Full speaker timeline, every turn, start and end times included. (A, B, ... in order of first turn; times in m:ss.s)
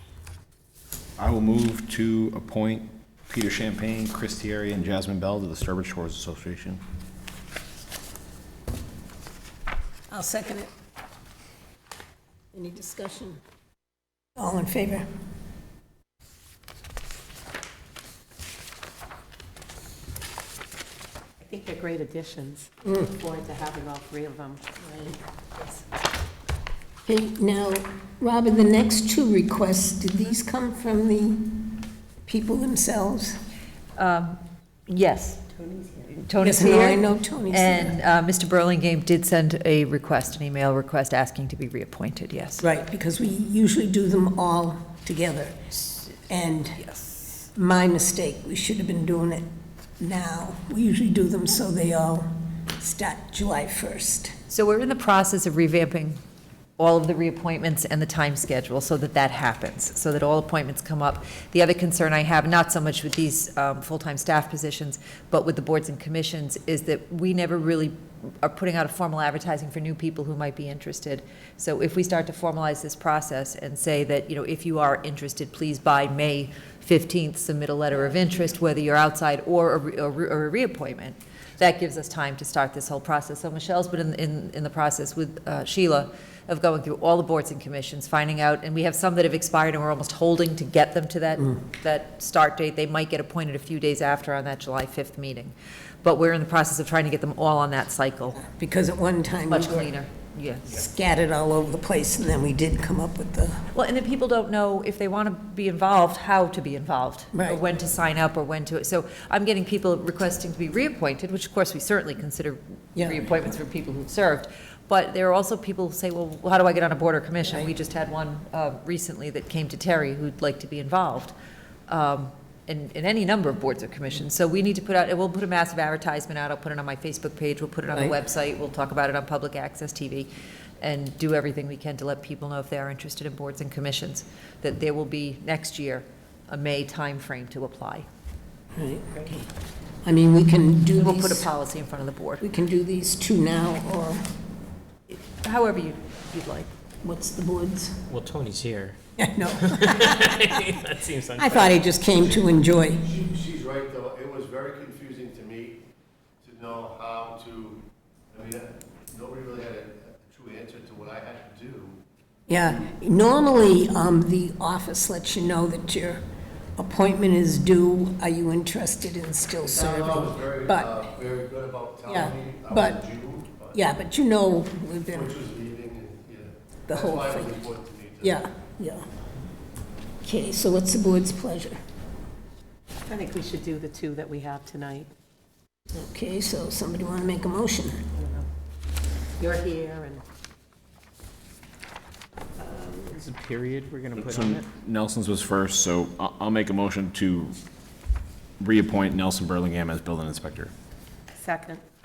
0:01.2-0:06.8 A
0:10.1-0:10.7 B
0:12.5-0:13.4 B
0:14.4-0:15.1 B
0:21.4-0:24.8 C
0:22.8-0:23.1 B
0:24.8-0:25.2 B
0:27.1-0:33.4 B
0:34.0-0:42.6 D
0:35.6-0:36.1 C
0:36.4-0:38.0 B
0:42.6-0:46.8 B
0:46.8-0:47.2 D
0:47.3-0:49.5 B
0:50.0-0:54.3 B
0:54.5-0:56.2 D
0:56.8-1:38.5 D
1:38.4-1:39.9 B
1:39.5-1:40.8 D
1:40.7-1:43.6 B
1:43.7-2:01.4 D
1:47.3-1:47.6 B
1:53.0-1:53.3 B
2:01.9-2:18.0 D
2:18.8-2:19.5 B
2:20.0-2:21.5 B
2:21.0-2:22.4 D
2:22.4-2:24.2 B
2:25.1-2:26.7 D
2:27.0-2:28.0 B
2:28.1-2:29.0 E
2:29.2-2:30.5 B
2:29.5-2:31.8 E
2:31.4-2:33.1 B
2:33.1-2:35.8 F
2:36.4-2:42.0 F
2:42.5-2:46.2 B
2:46.8-2:50.9 B
2:49.6-2:53.8 F
2:52.1-2:53.0 B
2:53.7-2:55.4 B
2:55.1-2:58.4 F
2:56.9-2:57.6 B
2:58.2-2:59.1 B
3:00.2-3:01.8 B
3:03.1-3:05.1 C
3:05.9-3:08.0 B
3:08.1-3:08.5 C
3:09.4-3:10.2 C
3:13.1-3:14.6 E
3:14.2-3:17.6 A
3:18.6-3:20.7 A
3:21.4-3:21.8 C